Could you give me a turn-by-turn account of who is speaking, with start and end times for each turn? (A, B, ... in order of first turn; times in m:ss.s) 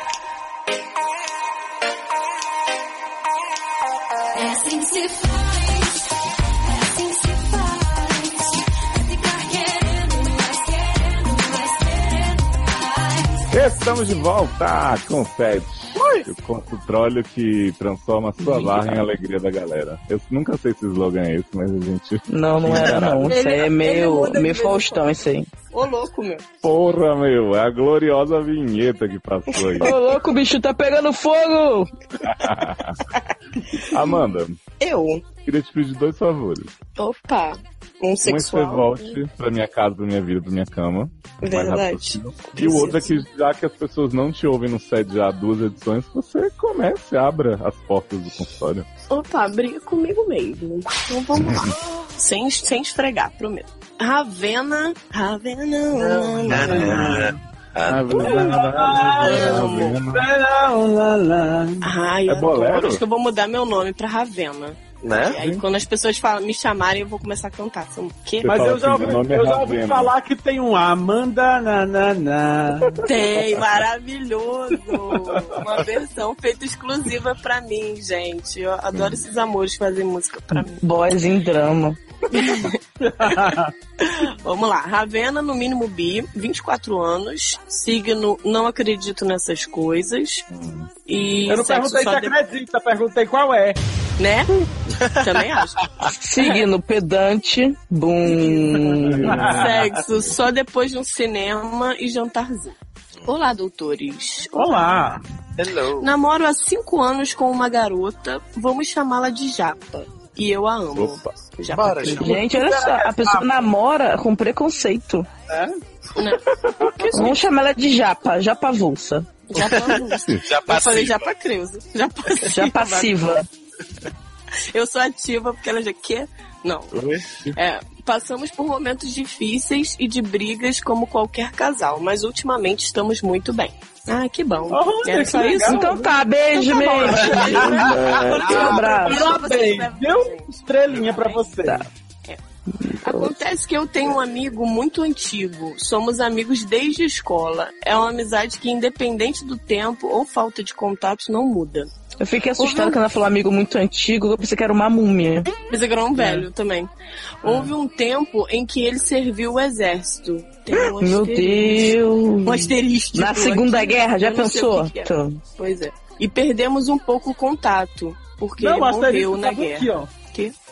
0:04.4-0:13.4 A
0:13.5-0:23.4 B
0:18.4-0:19.0 C
0:22.3-0:25.5 C
0:22.7-0:25.1 D
0:25.7-0:26.5 D
0:26.6-0:29.9 B
0:29.5-0:30.0 D
0:29.8-0:31.9 C
0:32.2-0:33.0 B
0:33.8-0:34.2 D
0:33.9-0:34.6 B
0:34.8-0:35.2 D
0:35.4-0:36.7 B
0:37.0-0:39.2 D
0:38.2-0:48.9 B
0:41.4-0:43.2 D
0:49.1-0:57.0 D
0:55.9-0:57.4 E
0:56.5-0:58.4 F
0:56.5-0:57.2 B
0:57.8-1:00.3 B
0:58.2-1:01.9 E
0:59.2-1:00.0 D
1:01.8-1:08.8 D
1:02.3-1:03.0 B
1:05.0-1:05.4 F
1:05.4-1:05.6 B
1:08.4-1:10.1 B
1:08.4-1:13.0 E
1:13.0-1:20.8 D
1:18.9-1:19.3 B
1:20.7-1:22.4 C
1:22.3-1:30.5 D
1:23.0-1:23.7 E
1:30.5-1:30.9 B
1:31.1-1:32.4 D
1:31.5-1:33.8 E
1:34.2-1:36.6 D
1:36.2-1:39.3 C
1:38.3-1:39.8 E
1:39.1-1:40.3 B
1:39.4-1:42.8 D
1:43.3-1:45.1 D
1:44.6-1:45.2 E
1:45.6-1:46.1 F
1:46.0-1:52.4 D
1:50.9-1:51.4 B
1:51.7-1:52.4 F
1:52.1-1:55.3 C
1:52.2-1:53.6 E
1:56.2-1:57.5 D
1:56.7-1:57.3 B
1:57.1-1:59.3 C
1:59.5-2:03.1 D
1:59.6-2:01.3 F
2:00.1-2:00.4 B
2:02.5-2:03.5 C
2:04.7-2:07.0 D
2:06.9-2:07.6 B
2:07.6-2:21.4 D
2:14.7-2:16.0 E
2:15.6-2:19.3 C
2:16.8-2:21.8 E
2:22.8-2:23.3 C
2:23.0-2:31.9 D
2:32.2-2:35.5 C
2:32.6-2:33.0 D
2:35.7-2:36.9 D
2:36.2-2:36.5 E
2:37.4-2:50.5 D
2:37.4-2:37.7 E
2:41.0-2:45.4 C
2:48.6-2:50.1 E